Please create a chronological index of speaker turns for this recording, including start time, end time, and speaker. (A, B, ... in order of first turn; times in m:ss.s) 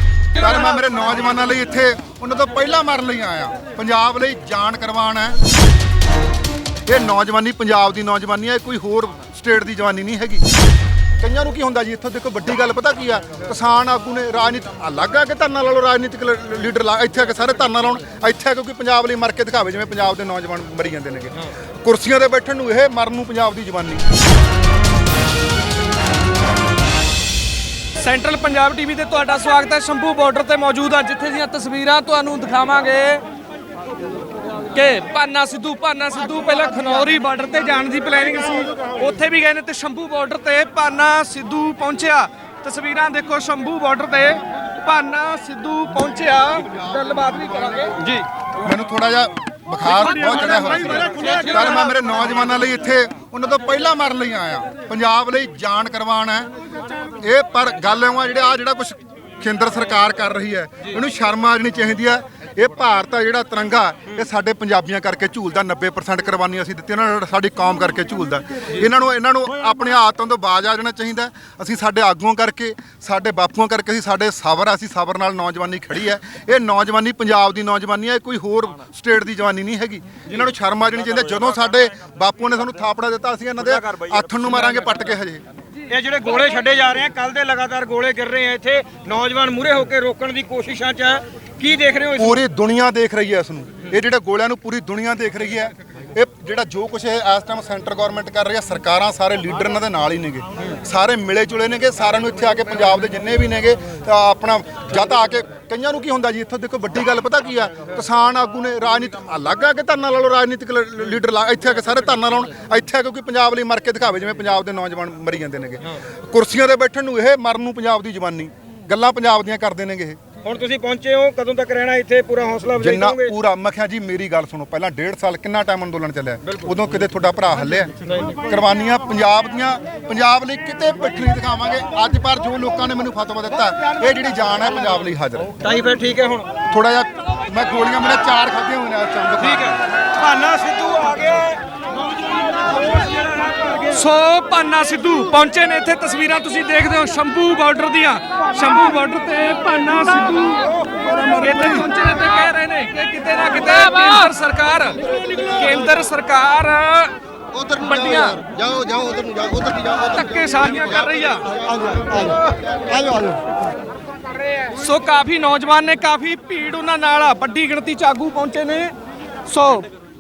0:00.3-0:05.4 A
0:06.9-0:10.4 A
0:11.2-0:24.0 A
0:28.0-0:33.2 B
0:34.7-0:48.2 B
0:48.6-0:56.5 A
0:49.9-0:51.8 B
0:57.2-1:25.4 A
1:23.7-1:24.6 C
1:25.9-1:32.4 C
1:32.2-2:00.2 A
2:00.4-2:03.4 C
2:02.8-2:15.6 A
2:15.6-2:16.6 C
2:16.6-2:19.8 A
2:19.4-2:21.6 C
2:22.1-2:24.0 C
2:23.9-2:30.7 B
2:31.2-2:38.5 B
2:38.7-2:39.6 C
2:39.8-2:41.6 B
2:44.7-2:48.9 B
2:49.5-2:49.9 B